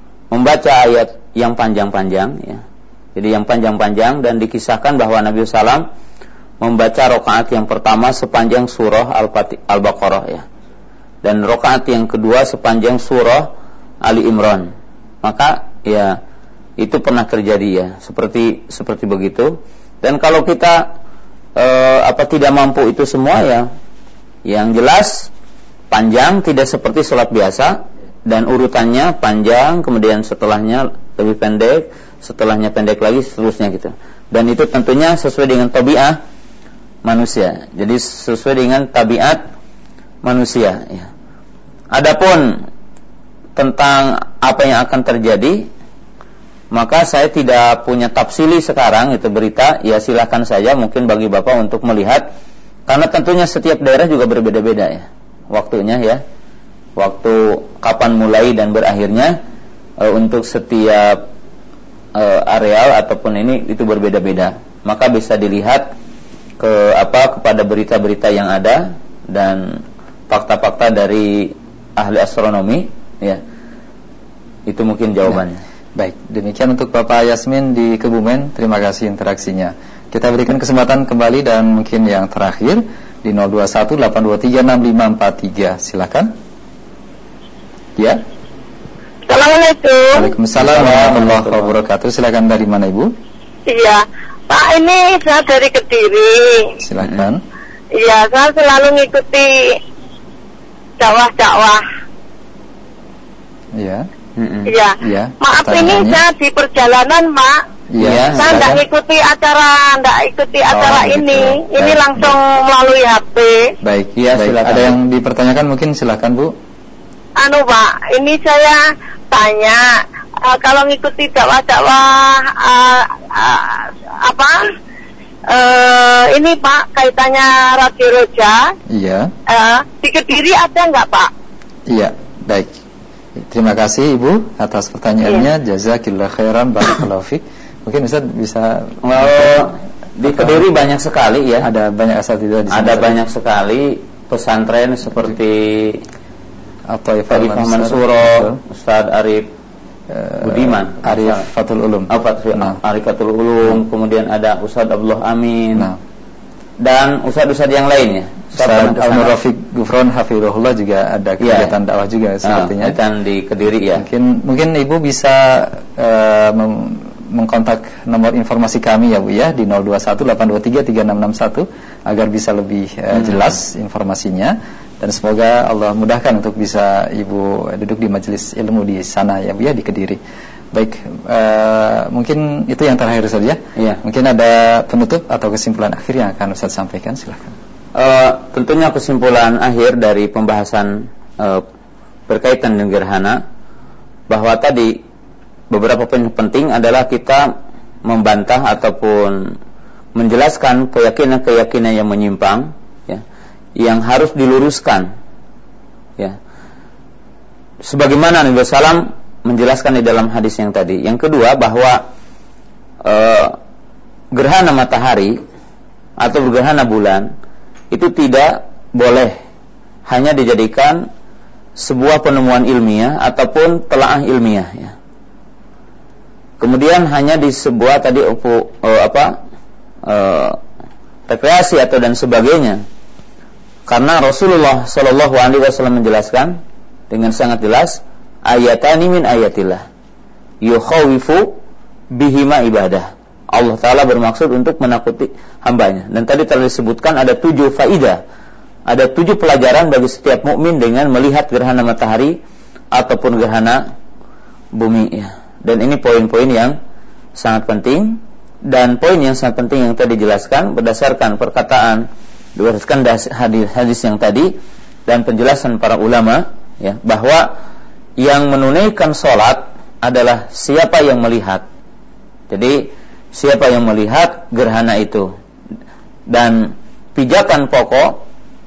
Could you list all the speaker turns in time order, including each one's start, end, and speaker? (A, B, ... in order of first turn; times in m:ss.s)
0:00.3-0:02.6 A
0:03.2-0:05.8 A
0:06.6-0:10.4 A
0:11.2-0:14.7 A
0:15.2-0:16.2 A
0:16.8-0:20.9 A
0:21.6-0:23.7 A
0:24.4-0:25.3 A
0:25.9-0:36.2 A
0:37.0-0:39.4 A
0:40.2-0:41.1 A
0:41.9-0:42.7 A
0:43.6-0:45.7 A
0:46.7-0:52.3 A
0:52.9-0:56.2 A
0:57.0-0:59.4 A
1:00.0-1:01.3 A
1:02.1-1:05.9 A
1:06.6-1:13.4 A
1:14.7-1:15.6 A
1:16.0-1:26.3 B
1:29.3-1:30.3 C
1:30.1-1:33.1 B
1:30.6-1:31.7 A
1:33.7-1:36.8 C
1:36.8-1:37.4 B
1:37.9-1:39.8 C
1:41.0-1:41.8 C
1:43.7-1:44.1 B
1:44.4-1:44.7 A
1:44.7-1:47.6 C
1:45.0-1:46.2 B
1:47.9-1:48.8 B
1:48.0-1:48.6 A
1:48.4-1:53.7 C
1:50.7-1:52.4 B
1:53.8-1:56.6 B
1:54.2-1:55.0 A
1:57.4-1:59.8 C
2:00.4-2:04.6 C
2:05.5-2:08.7 C
2:08.9-2:09.3 B
2:09.5-2:11.3 C
2:11.9-2:12.7 B
2:13.4-2:19.7 B
2:19.0-2:21.7 A
2:20.2-2:20.6 B
2:21.6-2:23.2 B
2:22.7-2:26.0 A
2:26.9-2:28.6 B
2:27.3-2:29.5 A
2:30.1-2:32.8 B
2:30.4-2:31.5 A
2:32.1-2:35.9 A
2:36.8-2:39.4 A
2:38.5-2:43.0 B
2:41.4-2:41.8 A
2:42.4-2:44.0 A
2:44.0-3:00.2 B
2:53.1-2:53.5 A
3:00.7-3:07.6 B
3:07.9-3:11.6 A
3:12.3-3:13.4 A
3:14.3-3:15.0 A
3:15.7-3:19.6 A
3:20.1-3:23.2 A
3:23.8-3:25.1 A
3:27.8-3:32.0 A
3:33.0-3:33.6 A
3:34.3-3:35.4 A
3:36.2-3:37.3 A
3:37.9-3:39.4 A
3:40.1-3:41.1 A
3:41.8-3:44.9 A
3:46.6-3:49.4 A
3:50.0-3:50.6 A
3:51.3-3:52.8 A
3:53.9-3:59.8 A
4:00.6-4:01.6 A
4:02.1-4:08.2 A
4:08.9-4:12.4 A
4:12.9-4:13.9 A
4:14.7-4:16.8 A
4:17.4-4:24.6 A
4:25.1-4:27.5 A
4:28.2-4:31.6 A
4:32.5-4:35.3 A
4:36.3-4:38.2 A